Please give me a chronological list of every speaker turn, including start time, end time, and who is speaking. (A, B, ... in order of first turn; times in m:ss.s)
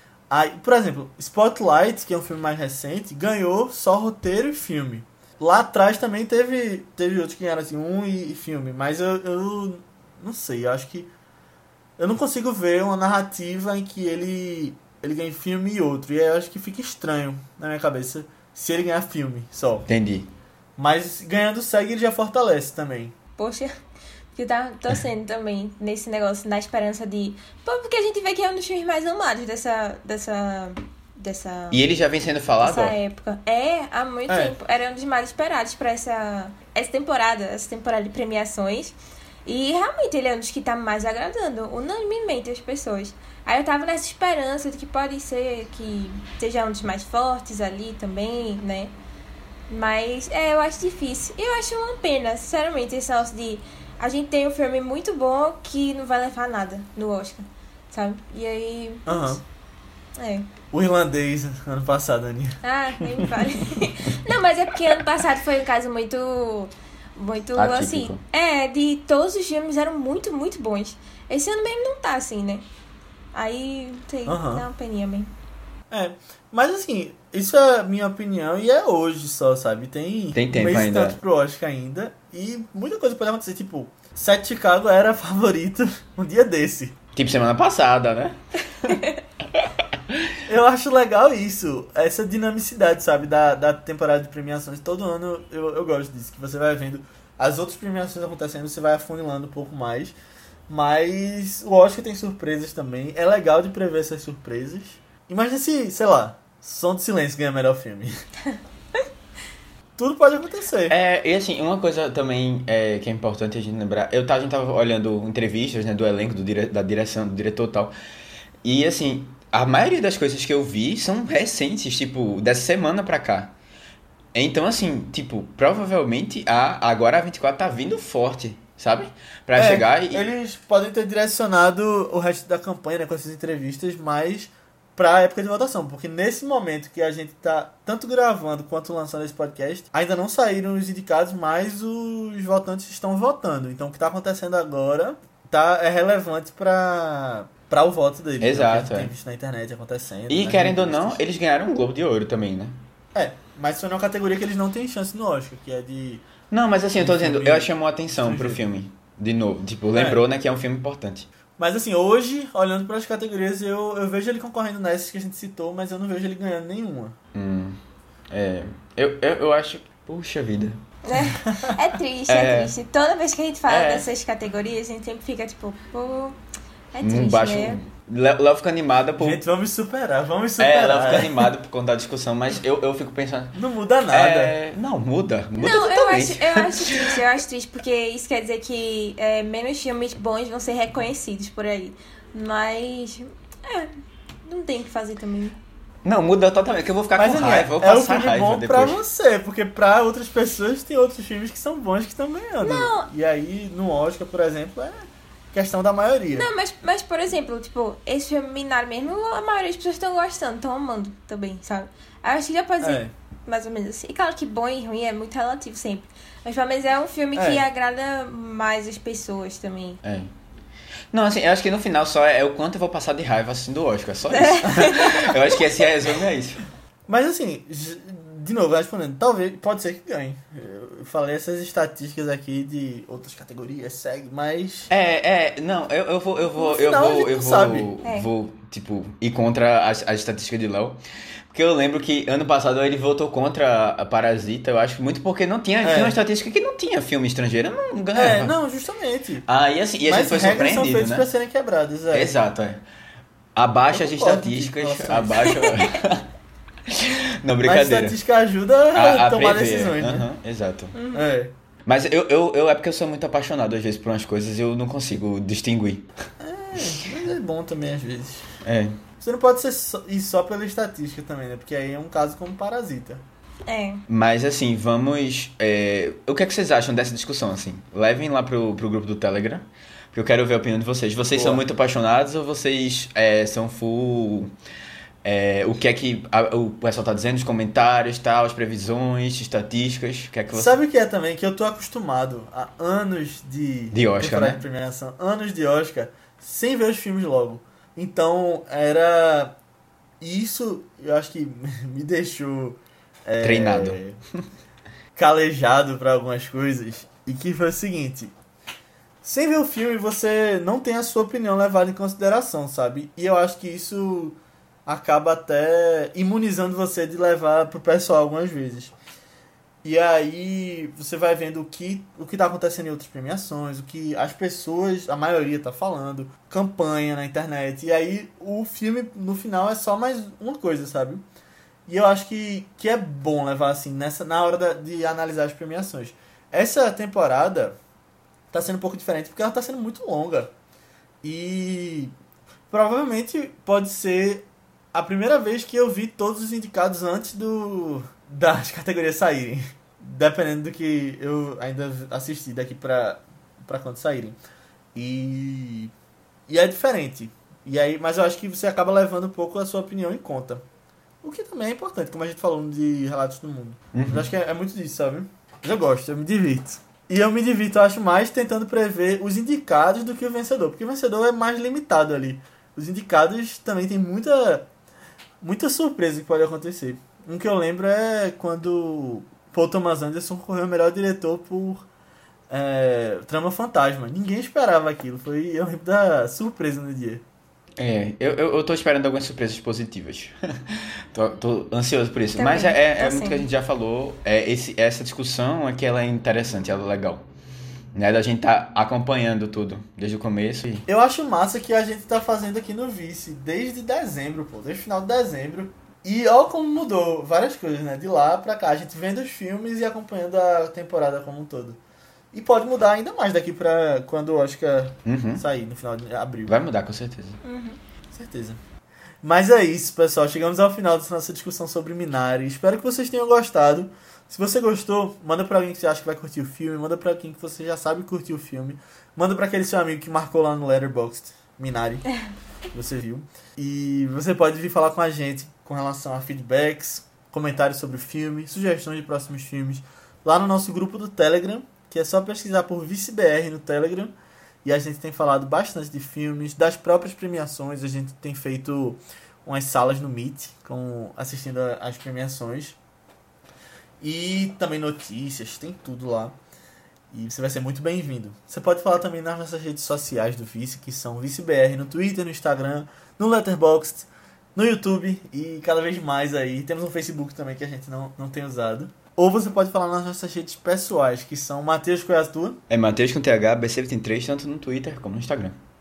0:00.3-0:11.1 A
0:12.0-0:19.9 A
0:19.9-0:20.3 B
0:20.8-0:23.1 A
0:23.4-0:23.7 C
0:24.3-0:31.8 C
0:31.7-0:33.0 B
0:32.6-0:48.9 C
0:34.3-0:34.5 A
0:49.7-0:59.4 C
0:59.0-0:59.4 A
1:00.2-1:00.5 C
1:00.7-1:03.3 A
1:02.6-1:12.6 C
1:07.6-1:08.2 B
1:13.3-1:15.3 C
1:14.2-1:14.6 A
1:15.9-1:27.0 A
1:20.3-1:21.2 B
1:27.1-1:29.0 B
1:29.5-1:30.3 B
1:30.4-1:40.2 A
1:40.7-1:48.1 A
1:50.0-1:51.0 A
1:50.9-1:57.9 B
1:58.6-2:03.5 B
2:04.3-2:10.2 B
2:09.6-2:31.2 A
2:28.4-2:29.1 B
2:30.3-2:32.8 B
2:33.1-2:36.2 A
2:36.5-2:41.3 B
2:37.0-2:38.6 A
2:39.9-2:40.2 A
2:41.6-2:47.2 A
2:47.3-2:47.8 B
2:48.3-2:50.8 B
2:51.0-2:56.4 C
2:51.3-2:51.7 A
2:52.3-2:52.7 B
2:53.7-2:54.1 B
2:56.9-2:57.8 C
2:57.0-2:59.4 B
2:59.2-3:01.5 A
3:00.6-3:03.6 B
3:03.5-3:04.5 A
3:04.1-3:07.2 B
3:05.6-3:13.9 C
3:14.4-3:15.6 C
3:16.0-3:19.0 B
3:17.2-3:26.5 A
3:22.6-3:23.1 C
3:26.3-3:40.0 C
3:32.8-3:33.1 A
3:37.4-3:37.6 A
3:40.0-3:40.3 B
3:41.1-3:46.6 B
3:44.3-3:45.6 C
3:47.1-3:54.9 A
3:54.9-4:01.0 B
3:56.6-3:57.9 A
4:01.5-4:08.5 B
4:05.8-4:06.2 A
4:08.1-4:09.4 A
4:09.4-4:11.3 B
4:10.0-4:12.3 A
4:12.1-4:12.8 B
4:13.6-4:16.2 B
4:13.9-4:15.8 A
4:16.9-4:18.2 B
4:17.6-4:20.2 A
4:18.9-4:20.9 B
4:20.9-4:21.2 C
4:21.1-4:21.5 A
4:21.8-4:26.1 B
4:26.4-4:28.5 A
4:28.6-4:29.0 B
4:29.2-4:33.2 A
4:33.6-4:34.0 C
4:34.1-4:44.5 B
4:41.3-4:41.6 A
4:45.2-4:50.7 B
4:50.5-4:59.5 A
4:53.9-4:54.6 B
5:00.2-5:04.2 A
5:03.4-5:04.0 B
5:05.2-5:08.3 A
5:09.2-5:18.9 A
5:19.8-5:31.2 A
5:31.9-5:37.8 A
5:38.5-5:40.5 A
5:41.2-5:42.1 A
5:42.7-5:54.4 A
5:54.9-5:55.9 A
5:56.5-6:00.6 A
6:01.2-6:14.7 A
6:03.9-6:04.3 B
6:15.4-6:21.8 A
6:22.5-6:27.2 A
6:27.8-6:37.2 B
6:32.4-6:33.4 C
6:37.9-6:40.8 B
6:40.9-6:51.8 A
6:52.3-6:56.5 A
6:55.0-6:55.4 B
6:56.5-6:57.4 B
6:57.4-6:57.8 C
6:58.1-6:58.6 A
6:59.2-7:12.0 A
7:12.7-7:32.8 A
7:34.0-7:36.4 A
7:37.1-7:52.6 A
7:52.7-7:55.6 B